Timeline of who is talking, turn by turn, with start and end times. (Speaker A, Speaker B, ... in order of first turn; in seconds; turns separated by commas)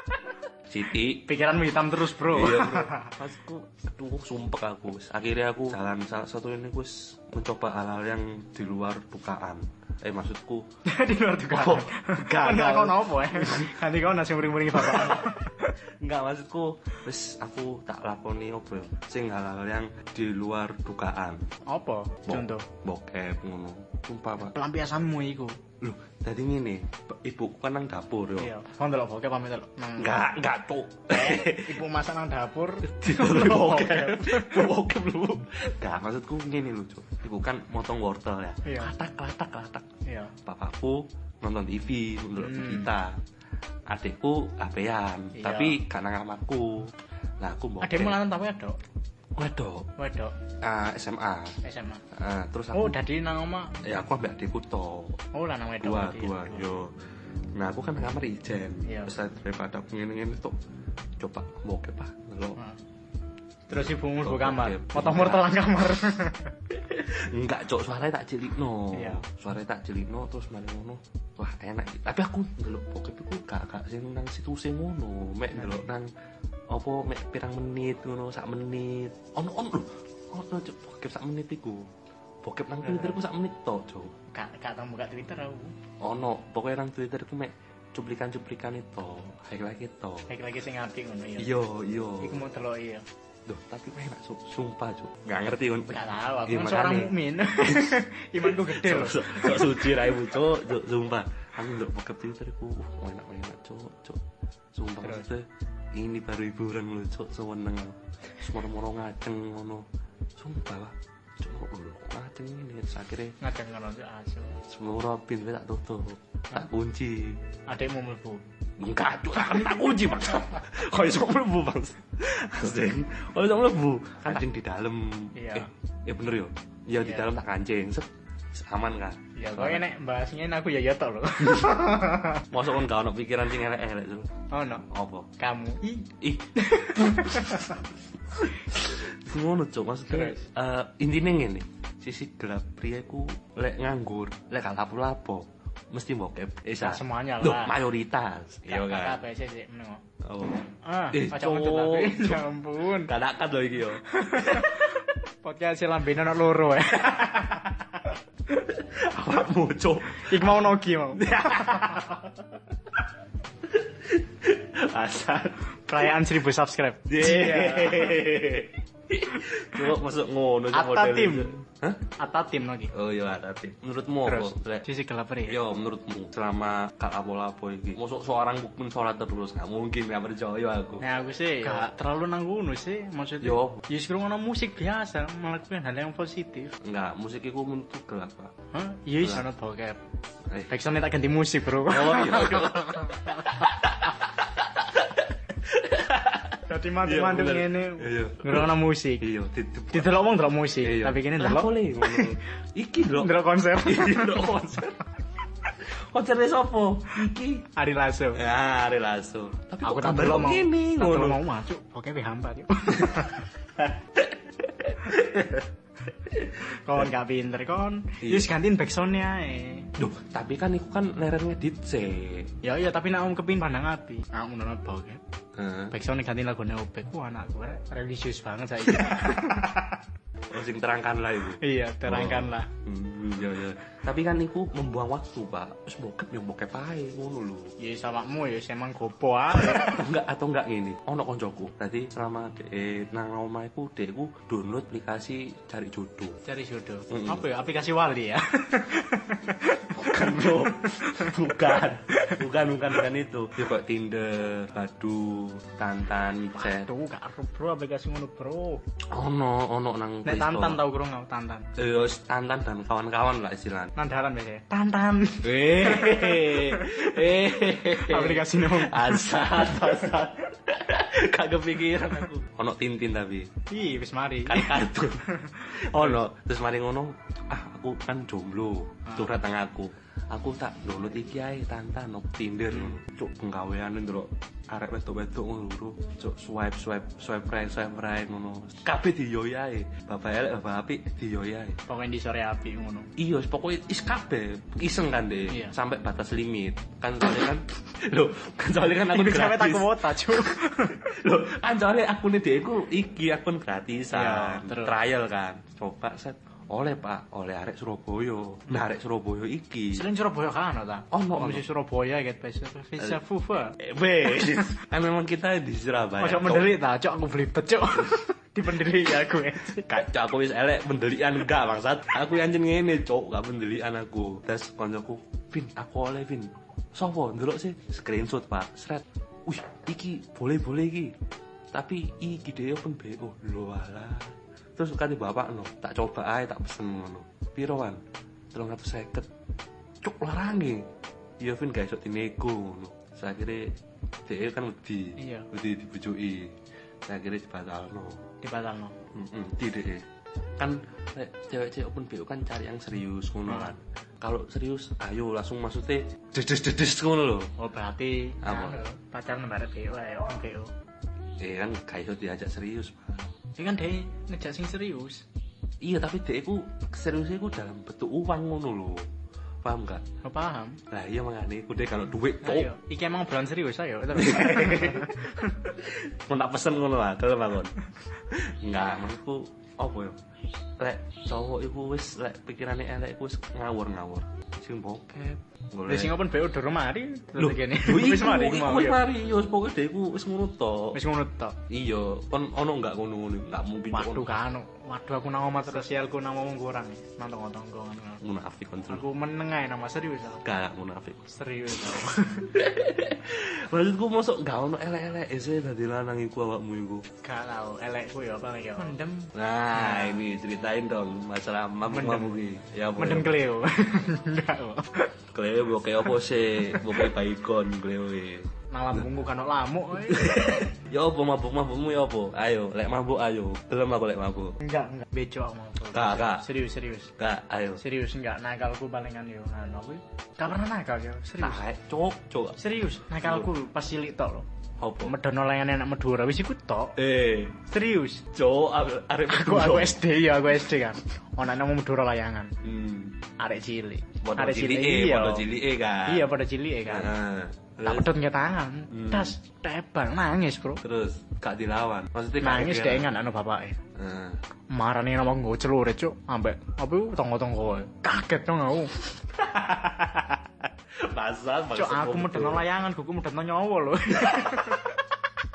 Speaker A: 0.7-1.3, Speaker B: 1.2-3.1, Speaker A: 2.2-10.7, Speaker B: 10.9-15.8, Speaker A: 11.5-13.7, Speaker A: 14.7-15.4, Speaker A: 16.0-21.5, Speaker B: 21.7-22.7, Speaker A: 22.3-24.6, Speaker B: 24.4-25.6, Speaker A: 25.8-28.5, Speaker B: 28.4-30.2, Speaker A: 30.0-31.8, Speaker B: 31.1-34.7, Speaker A: 32.8-39.9, Speaker B: 38.6-38.9, Speaker B: 40.0-40.3, Speaker A: 40.4-43.2, Speaker B: 42.4-42.9, Speaker A: 43.9-48.2, Speaker B: 45.4-45.8, Speaker B: 47.8-48.8, Speaker A: 49.4-49.9, Speaker B: 50.0-50.4, Speaker A: 50.6-51.6, Speaker B: 51.6-52.0, Speaker A: 52.1-53.0, Speaker B: 52.7-53.7, Speaker A: 53.8-55.2, Speaker B: 55.3-56.7, Speaker A: 55.8-56.9, Speaker A: 57.6-60.6, Speaker B: 58.9-59.1, Speaker A: 61.2-62.6, Speaker B: 63.7-66.5, Speaker A: 63.7-65.5, Speaker A: 66.7-76.1, Speaker B: 68.9-69.2, Speaker B: 75.5-75.9, Speaker A: 76.7-81.9, Speaker A: 82.4-84.1, Speaker B: 82.8-83.2, Speaker B: 84.3-85.7, Speaker A: 86.0-90.3, Speaker B: 90.3-91.5, Speaker A: 91.4-92.4, Speaker B: 92.2-93.0, Speaker A: 93.5-104.2, Speaker B: 95.9-100.2, Speaker A: 104.8-109.9, Speaker A: 110.4-113.4, Speaker B: 113.4-114.6, Speaker A: 114.7-117.4, Speaker B: 117.7-118.4, Speaker A: 118.8-129.8, Speaker B: 125.4-125.7, Speaker B: 127.0-127.3, Speaker B: 129.4-132.5, Speaker A: 131.5-131.8, Speaker A: 132.5-134.3, Speaker B: 134.5-134.8, Speaker A: 134.9-135.3, Speaker B: 135.4-137.8, Speaker A: 136.2-137.8, Speaker A: 138.3-149.2, Speaker B: 140.1-140.4, Speaker B: 146.8-147.8, Speaker B: 148.7-150.0, Speaker A: 150.2-154.7, Speaker B: 150.8-153.1, Speaker B: 154.1-157.9, Speaker A: 158.5-162.3, Speaker B: 160.2-162.1, Speaker A: 163.7-165.7, Speaker B: 165.9-168.2, Speaker A: 167.1-172.0, Speaker B: 170.7-171.5, Speaker B: 172.2-172.9, Speaker A: 172.9-174.9, Speaker B: 174.2-175.6, Speaker A: 175.4-181.0, Speaker B: 181.0-186.8, Speaker A: 183.4-183.8, Speaker A: 186.8-188.5, Speaker B: 188.7-190.0, Speaker B: 190.7-193.5, Speaker A: 191.8-200.2, Speaker B: 196.7-199.2, Speaker B: 199.9-202.4, Speaker A: 200.8-205.0, Speaker B: 203.2-204.8, Speaker A: 205.8-207.7, Speaker B: 207.7-208.4, Speaker A: 208.3-211.4, Speaker B: 209.8-213.5, Speaker A: 213.8-215.7, Speaker A: 216.2-216.6, Speaker B: 216.7-219.9, Speaker A: 218.2-218.5, Speaker A: 220.0-222.5, Speaker B: 222.6-225.2, Speaker A: 225.6-226.0, Speaker B: 225.9-230.0, Speaker A: 228.9-229.5, Speaker A: 230.5-237.7, Speaker B: 231.6-232.7, Speaker B: 237.8-240.0, Speaker A: 239.5-246.4, Speaker B: 246.4-251.6, Speaker A: 247.1-247.5, Speaker A: 249.9-256.9, Speaker B: 256.6-258.8, Speaker A: 259.1-260.8, Speaker B: 260.2-261.7, Speaker A: 261.8-263.9, Speaker B: 263.9-270.2, Speaker A: 265.4-273.5, Speaker B: 273.7-276.2, Speaker A: 274.5-291.8, Speaker B: 279.1-279.3, Speaker B: 291.9-293.1, Speaker A: 293.2-310.0, Speaker B: 295.5-295.8, Speaker B: 299.1-301.1, Speaker B: 304.1-304.9, Speaker B: 309.9-313.8, Speaker A: 311.1-311.6, Speaker A: 313.8-316.7, Speaker B: 316.2-319.9, Speaker A: 319.8-331.1, Speaker A: 331.7-338.0, Speaker A: 338.5-339.3, Speaker A: 340.0-340.9, Speaker A: 341.4-343.8, Speaker A: 344.2-348.2, Speaker B: 345.2-345.5, Speaker B: 348.4-349.0, Speaker A: 349.1-350.0, Speaker A: 350.6-357.5, Speaker B: 353.5-353.7, Speaker B: 357.6-360.7, Speaker A: 358.4-358.8, Speaker A: 361.4-363.3, Speaker B: 363.5-365.2, Speaker A: 365.8-369.1, Speaker A: 369.6-370.1, Speaker B: 370.2-370.8, Speaker A: 370.9-372.7, Speaker B: 372.4-375.6, Speaker A: 374.1-377.8, Speaker A: 378.3-380.2, Speaker A: 380.8-386.1, Speaker B: 385.9-389.0, Speaker A: 387.4-391.0, Speaker B: 390.9-391.6, Speaker A: 391.7-394.3, Speaker B: 393.9-398.2, Speaker A: 398.2-399.0, Speaker B: 398.9-400.4, Speaker A: 400.4-401.3, Speaker B: 401.3-402.5, Speaker A: 402.4-407.0, Speaker B: 407.2-410.2, Speaker A: 409.3-413.4, Speaker B: 411.9-412.4, Speaker B: 413.0-415.1, Speaker A: 415.3-419.0, Speaker B: 416.6-417.1, Speaker B: 418.7-420.7, Speaker A: 420.0-424.6, Speaker B: 424.6-427.1, Speaker A: 425.9-426.5, Speaker A: 427.2-427.8, Speaker B: 427.8-431.6, Speaker A: 431.4-432.6, Speaker B: 432.6-434.5, Speaker A: 434.8-435.1, Speaker B: 435.0-437.0, Speaker A: 437.0-437.6, Speaker B: 437.6-438.3, Speaker A: 438.3-440.0, Speaker B: 439.3-442.5, Speaker A: 442.6-443.2, Speaker B: 443.4-445.5, Speaker A: 444.2-446.3, Speaker B: 446.1-447.1, Speaker A: 446.9-448.1, Speaker B: 447.8-450.8, Speaker A: 448.9-449.4, Speaker A: 450.8-453.1, Speaker B: 452.4-453.8, Speaker A: 454.0-454.4, Speaker B: 454.7-459.0, Speaker A: 459.4-460.4, Speaker A: 461.0-462.6, Speaker B: 461.7-465.0